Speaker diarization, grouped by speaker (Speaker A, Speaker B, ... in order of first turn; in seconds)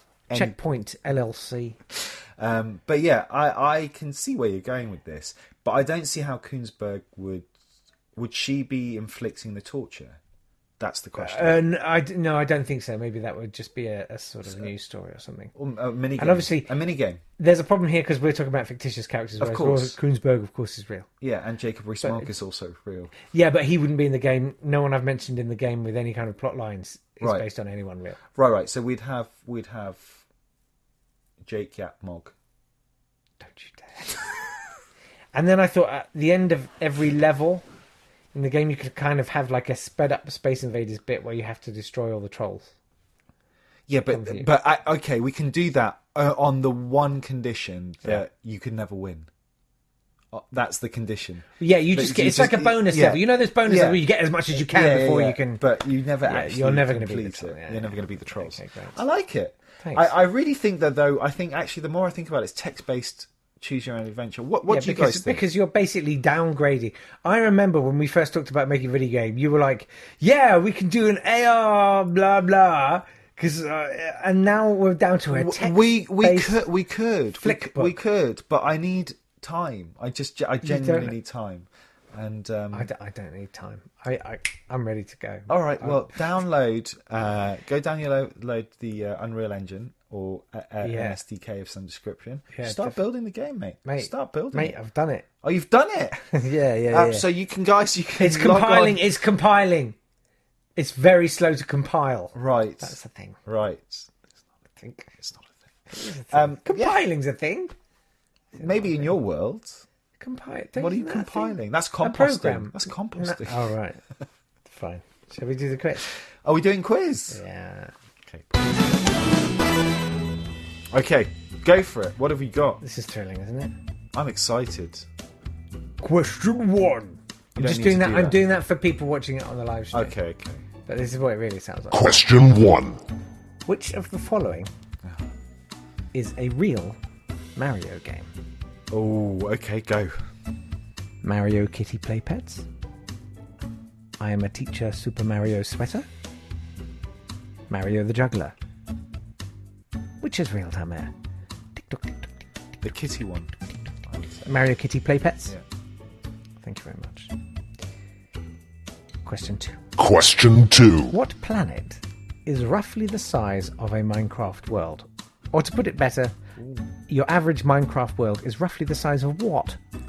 Speaker A: 0.3-0.5, 1.9-7.5, 8.1-10.2, 10.8-11.6, 15.5-17.2, 19.4-19.9, 21.2-23.1, 27.2-27.5, 28.3-30.2, 31.4-32.3, 43.9-49.3, 50.3-54.0, 54.5-65.4, 75.3-82.9, 85.5-94.7, 95.4-96.3, 96.9-99.0, 102.3-104.1, 105.2-105.5, 106.3-107.0, 108.6-109.8, 110.8-113.7, 116.1-117.4, 118.2-118.8, 120.9-122.8, 124.1-125.0, 127.5-128.4, 129.9-130.6, 138.9-140.1, 152.8-153.5, 154.0-154.6
Speaker B: 0.3-1.8, 11.2-15.5, 16.2-16.7, 17.4-21.1, 22.0-22.3, 23.3-28.2, 33.4-34.3, 35.3-37.6, 38.3-42.7, 44.1-44.5, 51.6-55.6, 56.2-59.0, 59.8-60.1, 64.7-76.6, 77.4-78.0, 80.6-81.2, 82.7-86.1, 90.8-91.2, 92.5-93.0, 93.8-95.3, 96.3-97.2, 98.2-100.0, 100.8-103.4, 104.8-105.2, 105.9-107.7, 108.5-109.2, 110.2-114.0, 114.7-116.1, 117.3-117.9, 122.8-123.7, 126.0-130.1, 130.8-132.1, 133.7-134.7, 136.1-137.0, 137.6-138.3, 141.2-142.6, 144.2-146.1, 147.7-148.5, 150.2-151.1, 151.8-152.3, 154.4-155.6, 156.6-157.3, 159.2-159.8, 161.1-166.4, 167.1-169.8
Speaker C: 131.9-133.0, 160.0-161.1